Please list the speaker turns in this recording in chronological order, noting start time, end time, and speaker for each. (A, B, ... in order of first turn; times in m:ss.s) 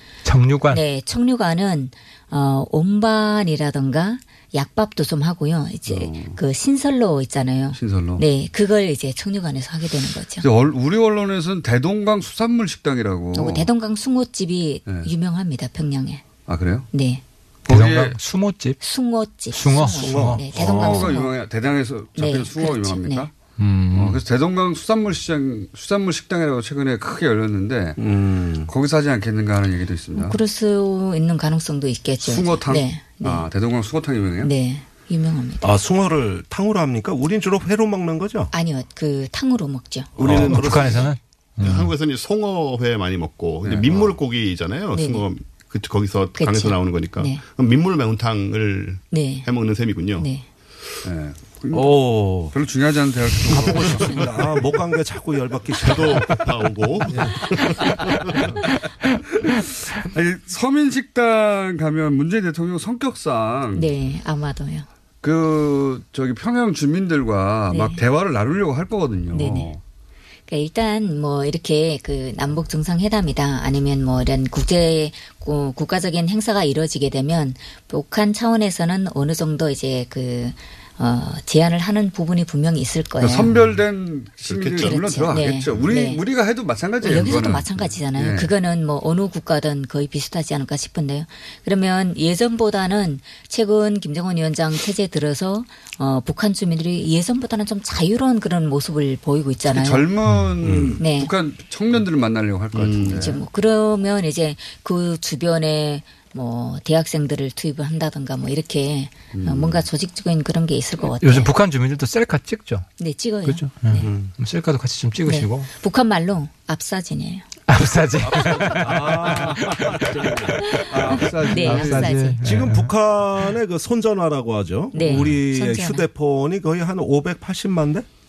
0:00.2-0:00.8 A
0:00.7-0:10.5 B
0:05.9-0:06.4 C
0:07.8-0:08.2 C
0:10.4-0:13.7 C
0:13.3-0:16.3 B
0:16.5-0:16.9 C
0:16.9-0:17.2 B
0:17.6-0:18.2 C
0:17.7-0:18.8 A
0:18.8-0:21.4 B
0:19.5-0:20.4 A
0:19.8-0:21.2 D
0:20.6-0:23.3 C
0:22.2-0:23.3 B
0:23.6-0:24.2 A
0:23.9-0:28.0 C
0:28.0-0:28.7 D
0:28.7-0:30.4 C
0:30.1-0:33.5 B
0:32.2-0:34.5 C
0:34.4-0:35.7 B
0:35.6-0:38.5 D
0:38.5-0:40.2 B
0:40.2-0:41.1 D
0:40.2-0:41.1 E
0:40.2-0:41.9 A
0:41.6-0:50.3 E
0:43.6-0:44.2 C
0:44.9-0:45.3 B
0:46.4-0:47.5 B
0:49.1-0:49.5 B
0:50.2-0:50.4 B
0:51.0-0:54.2 C
0:51.7-0:52.6 D
0:53.5-0:56.6 D
0:55.8-0:58.0 E
0:57.1-0:57.4 D
1:00.1-1:03.9 C
1:03.7-1:04.9 B
1:05.2-1:09.8 C
1:07.7-1:08.0 B
1:09.3-1:09.7 B
1:10.5-1:23.5 B
1:23.2-1:28.5 C
1:24.4-1:25.3 E
1:24.8-1:26.2 B
1:27.0-1:40.1 B
1:39.6-1:43.4 C
1:40.6-1:41.0 D
1:41.0-1:41.3 B
1:42.7-1:43.3 E
1:43.1-1:51.5 B
1:49.3-1:49.8 C
1:51.2-1:52.9 A
1:53.0-1:54.1 B
1:53.4-1:55.7 A
1:54.0-1:54.3 D
1:55.3-1:57.5 B
1:57.7-2:00.1 A
1:58.3-2:01.3 D
2:00.9-2:02.2 C
2:01.4-2:02.4 B
2:01.5-2:02.9 A
2:02.4-2:08.1 D
2:04.9-2:06.1 B